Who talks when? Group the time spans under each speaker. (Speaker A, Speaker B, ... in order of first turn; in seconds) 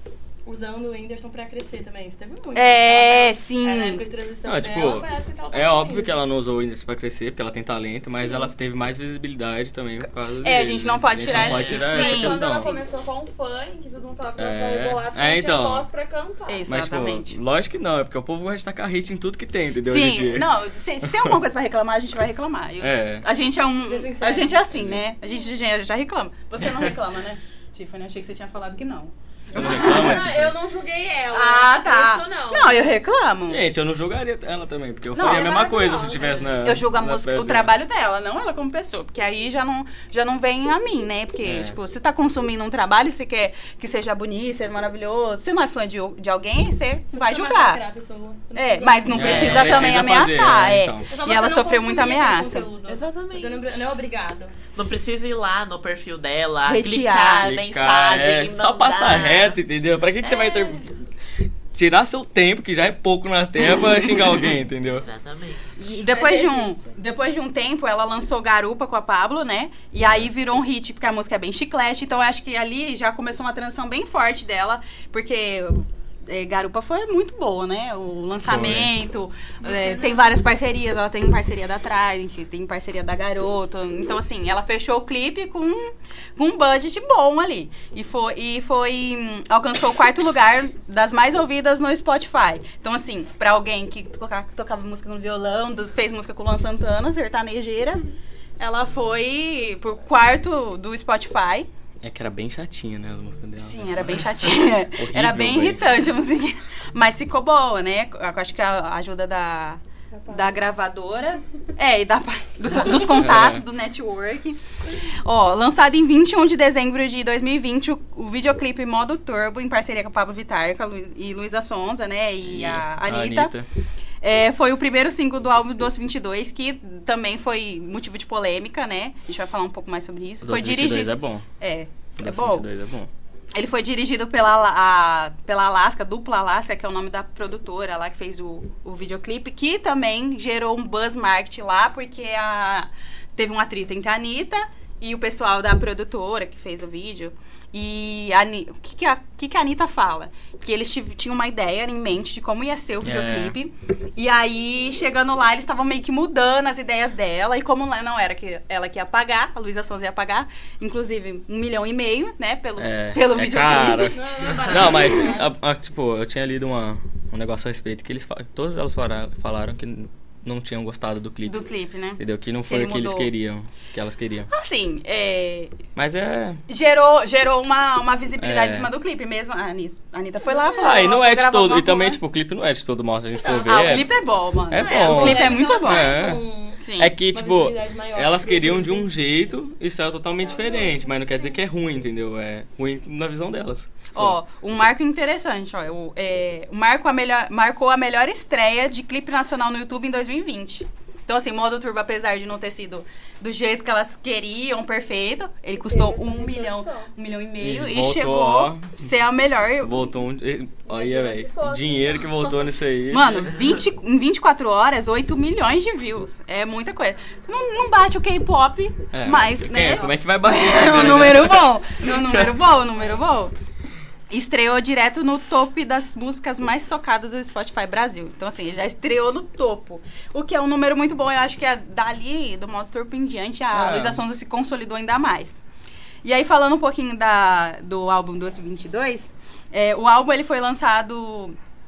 Speaker A: 0.5-6.2, 23.9-24.6, 47.1-49.9, 51.1-54.6, 66.1-66.5, 164.1-165.5, 183.3-184.0, 184.7-189.1, 190.4-191.1
Speaker B: 2.5-4.0, 10.0-12.8, 16.5-17.4, 19.8-30.3, 31.3-33.6, 35.1-35.6, 36.6-47.8, 48.5-52.7, 56.7-57.5, 65.8-101.7, 103.6-123.6, 124.2-132.7, 133.5-164.2, 171.4-173.3, 174.5-175.8, 176.7-182.2, 183.7-186.1, 186.8-187.1, 194.1-210.1, 213.1-223.5, 224.3-235.6, 236.2-241.6
Speaker C: 4.5-12.7, 14.4-15.9, 16.7-20.5, 21.0-21.4, 22.8-23.2, 24.7-25.0, 29.5-30.6, 33.5-37.7, 41.4-41.8, 49.1-51.1, 57.4-60.9, 61.7-65.1, 78.4-78.9, 102.0-105.8, 113.1-113.6, 122.4-123.7, 130.4-131.4, 132.2-133.1, 153.0-153.6, 162.8-171.6, 172.2-174.5, 175.9-176.6, 178.4-178.9, 180.7-184.1, 184.7-186.4, 187.0-194.4, 207.6-209.0, 209.8-213.5, 219.1-222.4, 233.7-234.2
Speaker D: 11.3-11.9, 49.2-50.0, 52.9-53.9, 54.7-59.6, 60.2-60.8, 64.9-65.7
Speaker E: 11.8-16.6, 29.6-33.0, 35.2-36.6, 79.7-80.2, 110.1-110.6, 205.7-207.1, 210.8-212.7